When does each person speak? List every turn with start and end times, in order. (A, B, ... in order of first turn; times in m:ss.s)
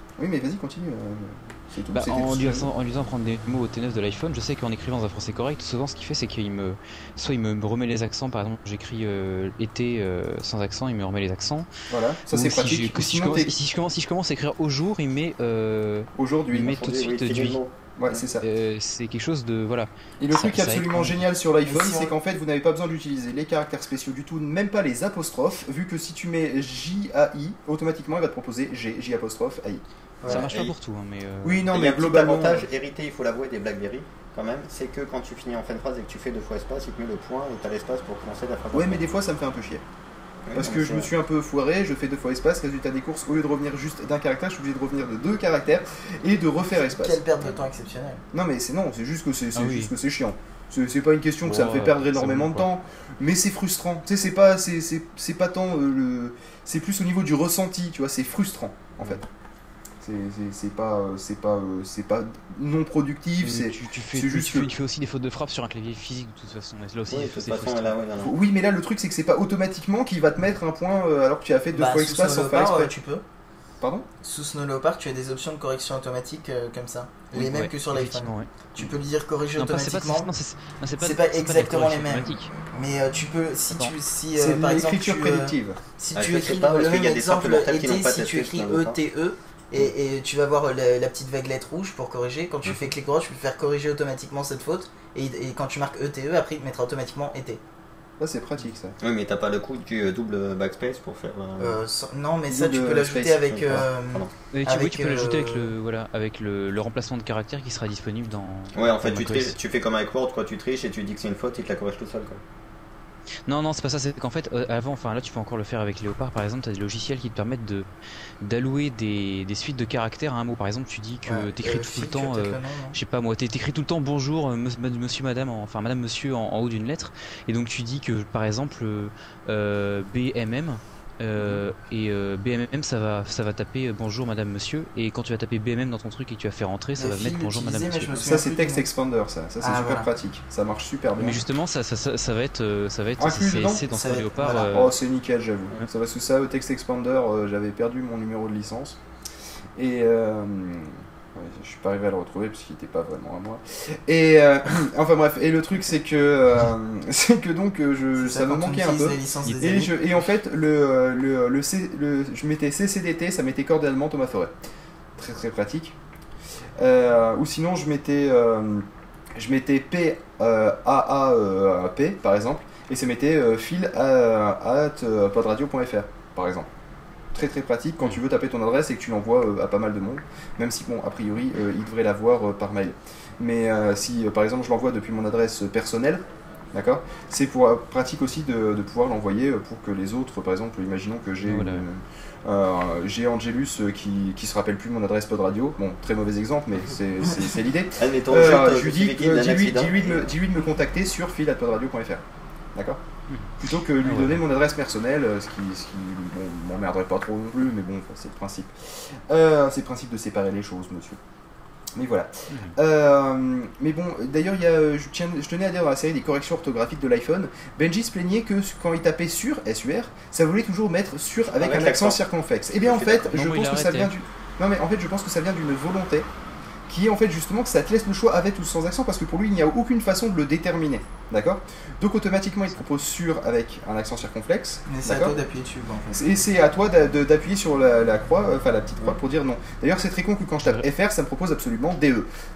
0:00.2-0:02.7 A
0:01.9-0:11.7 B
0:11.9-0:13.5 A
0:12.3-0:17.6 B
0:16.2-0:16.7 A
0:16.5-0:18.2 C
0:18.0-0:18.4 A
0:18.4-0:21.2 B
0:20.2-0:30.5 A
0:21.7-0:22.1 D
0:30.3-0:31.7 B
0:30.3-0:30.7 C
0:31.4-0:32.6 A
0:31.7-0:39.0 C
0:38.7-0:39.8 A
0:40.5-0:41.1 C
0:40.5-0:47.2 A
0:46.7-0:48.2 D
0:48.3-0:59.2 A
0:49.5-0:49.9 B
0:51.4-0:52.7 B
1:00.0-1:04.7 A
1:03.4-1:08.0 B
1:07.1-1:08.3 C
1:08.2-1:12.9 A
1:11.7-1:13.2 D
1:13.8-1:14.1 A
1:14.2-1:20.3 D
1:17.3-1:18.5 B
1:19.6-1:22.5 B
1:21.0-1:37.6 D
1:24.4-1:25.8 A
1:26.1-1:29.0 C
1:38.2-1:39.0 A
1:39.0-1:41.8 C
1:41.6-1:45.7 D
1:42.5-1:43.6 A
1:43.4-1:44.3 C
1:44.5-1:49.5 B
1:48.7-1:52.4 C
1:53.4-1:57.9 B
1:58.4-2:18.1 B
2:01.2-2:03.0 D
2:17.0-2:18.8 D
2:18.2-2:21.4 A
2:19.6-2:20.1 D
2:21.2-2:24.9 B
2:23.2-2:29.0 A
2:23.9-2:24.7 D
2:29.8-2:44.5 A
2:38.2-2:40.0 D
2:45.2-2:45.9 A
2:46.8-2:56.7 A
2:57.3-3:06.2 A
3:06.7-3:22.2 A
3:11.4-3:11.8 B
3:18.0-3:20.3 C
3:23.3-3:24.4 B
3:23.6-3:31.2 A
3:31.9-3:46.3 A
3:32.5-3:32.7 B
3:41.6-3:42.2 C
3:42.8-3:43.3 C
3:43.2-3:44.1 B
3:46.9-3:55.3 A
3:54.9-3:56.2 D
3:56.1-4:02.3 A